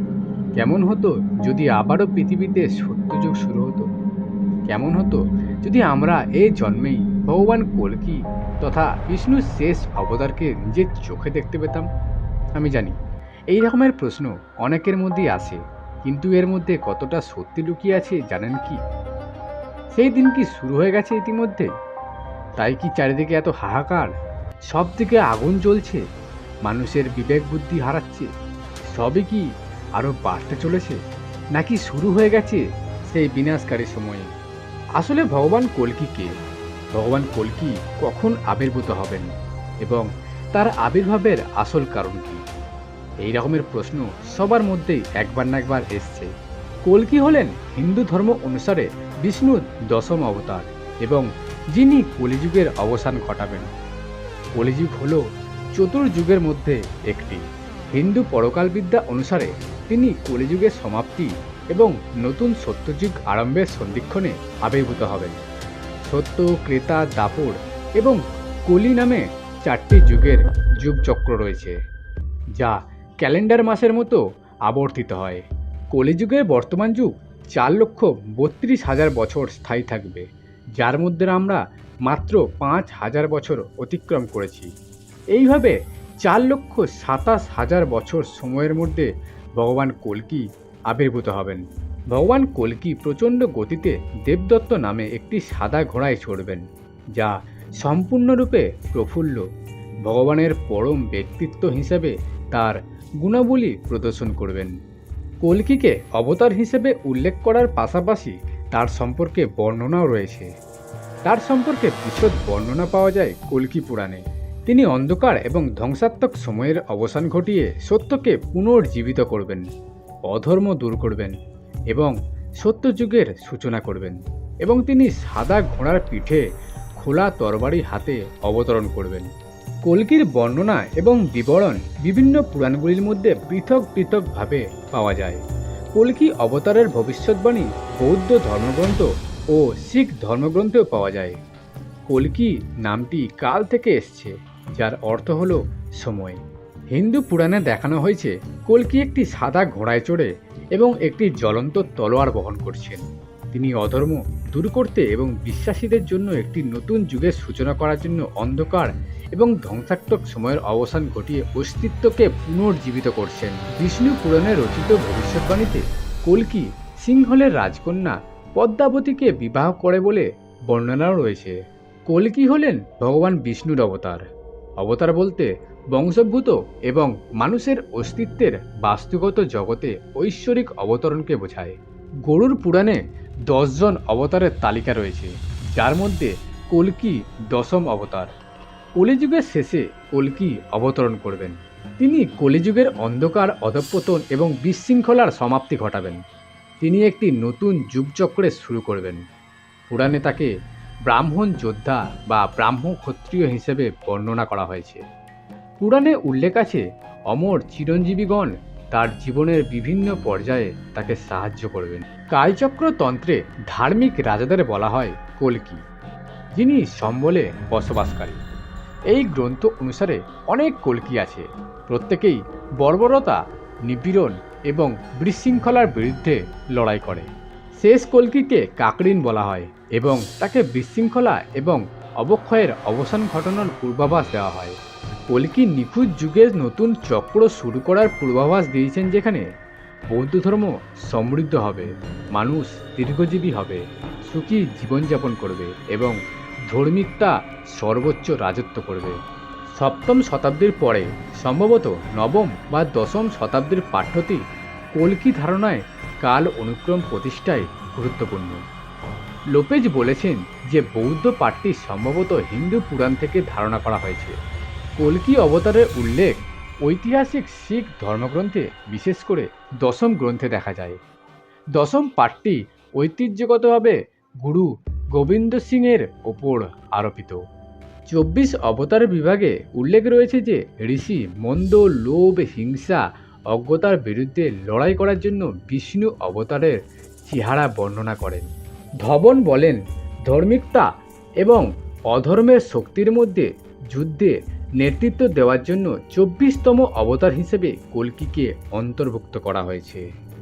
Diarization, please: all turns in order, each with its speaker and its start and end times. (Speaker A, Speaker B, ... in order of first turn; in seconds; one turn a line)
Speaker A: 0.6-3.9
Speaker A: 4.7-11.9
Speaker A: 12.6-12.9
Speaker A: 13.5-18.8
Speaker A: 20.0-21.7
Speaker A: 22.6-24.1
Speaker A: 24.7-26.0
Speaker A: 26.6-28.3
Speaker A: 28.9-29.4
Speaker A: 30.0-31.0
Speaker A: 31.6-34.3
Speaker A: 35.0-36.3
Speaker A: 36.9-39.3
Speaker A: 39.8-42.4
Speaker A: 43.2-46.3
Speaker A: 46.9-53.7
Speaker A: 54.6-55.2
Speaker A: 55.8-65.4
Speaker A: 66.1-71.8
Speaker A: 72.6-80.2
Speaker A: 80.8-84.7
Speaker A: 85.3-96.6
Speaker A: 97.2-99.4
Speaker A: 100.0-104.7
Speaker A: 105.4-110.5
Speaker A: 111.3-119.7
Speaker A: 120.3-121.3
Speaker A: 121.9-126.4
Speaker A: 127.0-129.3
Speaker A: 129.8-135.4
Speaker A: 136.0-141.4
Speaker A: 142.1-146.4
Speaker A: 146.9-171.6
Speaker A: 172.1-174.2
Speaker A: 174.8-188.3
Speaker A: 189.0-196.2
Speaker A: 196.8-199.2
Speaker A: 199.9-200.5
Speaker A: 201.1-205.0
Speaker A: 205.8-215.8
Speaker A: 216.6-218.4
Speaker A: 219.1-227.3
Speaker A: 227.8-234.8
Speaker A: 235.3-239.4
Speaker A: 240.1-246.2
Speaker A: 246.7-249.2
Speaker A: 249.8-254.4
Speaker A: 255.0-258.6
Speaker A: 259.5-264.3
Speaker A: 265.0-266.3
Speaker A: 266.9-271.0
Speaker A: 271.8-277.4
Speaker A: 278.1-288.5
Speaker A: 289.0-290.9
Speaker A: 291.4-300.0